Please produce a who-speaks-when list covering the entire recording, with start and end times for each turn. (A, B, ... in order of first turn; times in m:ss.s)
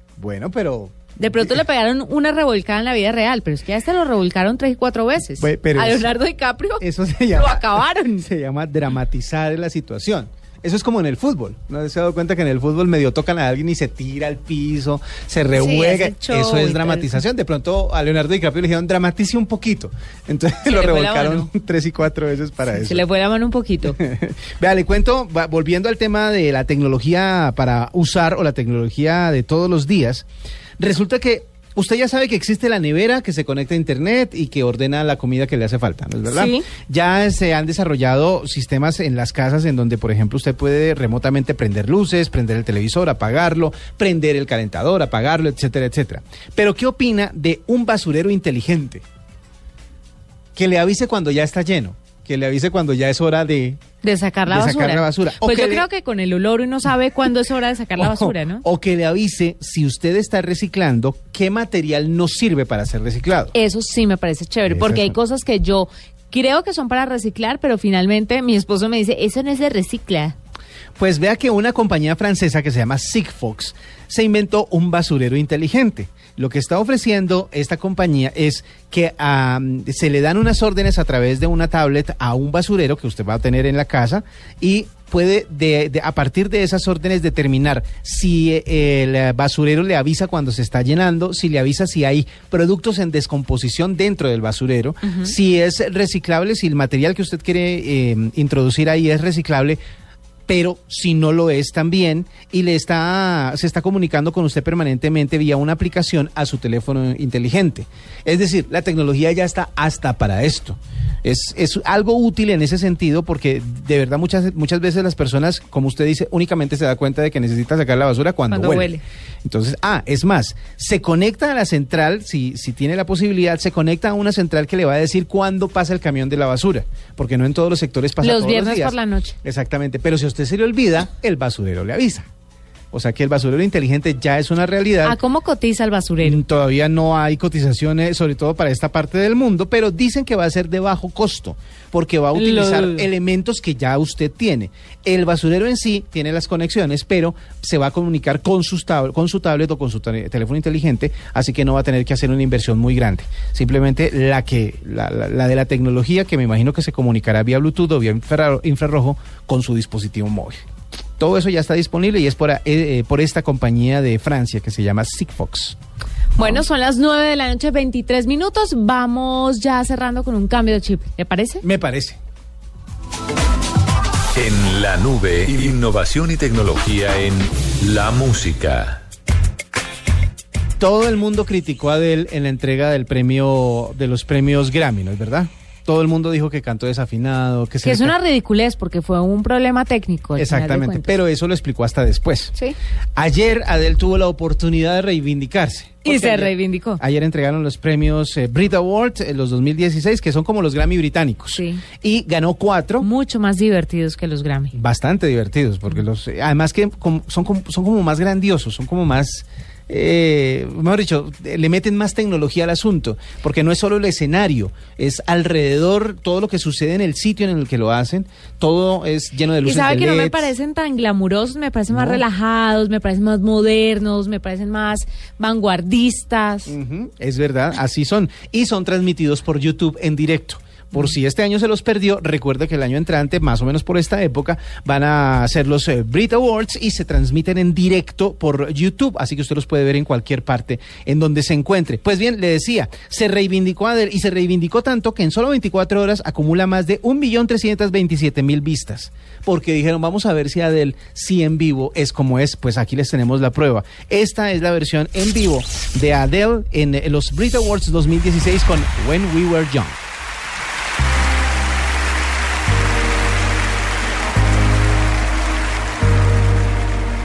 0:00.2-0:01.6 A
0:01.2-0:08.3 B
0:05.4-0:06.1 A
0:06.8-0:23.0 A
0:15.5-0:17.2 B
0:20.7-0:21.5 B
0:22.7-0:24.0 B
0:23.9-0:30.2 A
0:30.8-0:49.0 A
0:36.3-0:36.6 B
0:50.5-0:53.8 A
0:54.0-0:58.6 B
0:54.5-0:55.8 A
0:58.0-1:03.5 A
1:03.5-1:10.4 B
1:04.7-1:05.2 A
1:11.0-1:39.8 A
1:35.0-1:35.3 B
1:40.5-1:58.9 A
1:58.5-1:59.0 B
1:59.4-2:12.3 A
2:08.2-2:09.4 B
2:12.9-2:15.2 A
2:15.0-2:16.4 B
2:16.2-2:40.6 A
2:22.3-2:23.0 B
2:41.2-2:45.8 A
2:46.4-2:51.6 B
2:51.6-2:52.2 A
2:54.3-2:59.0 C
3:00.8-3:08.1 A
3:07.8-3:11.1 B
3:10.4-3:12.5 A
3:13.2-3:23.0 A
3:16.0-3:17.0 B
3:21.6-3:21.8 B
3:23.0-3:24.7 B
3:24.7-3:40.5 A
3:39.6-3:46.7 B
3:41.9-3:42.2 A
3:46.7-4:20.0 A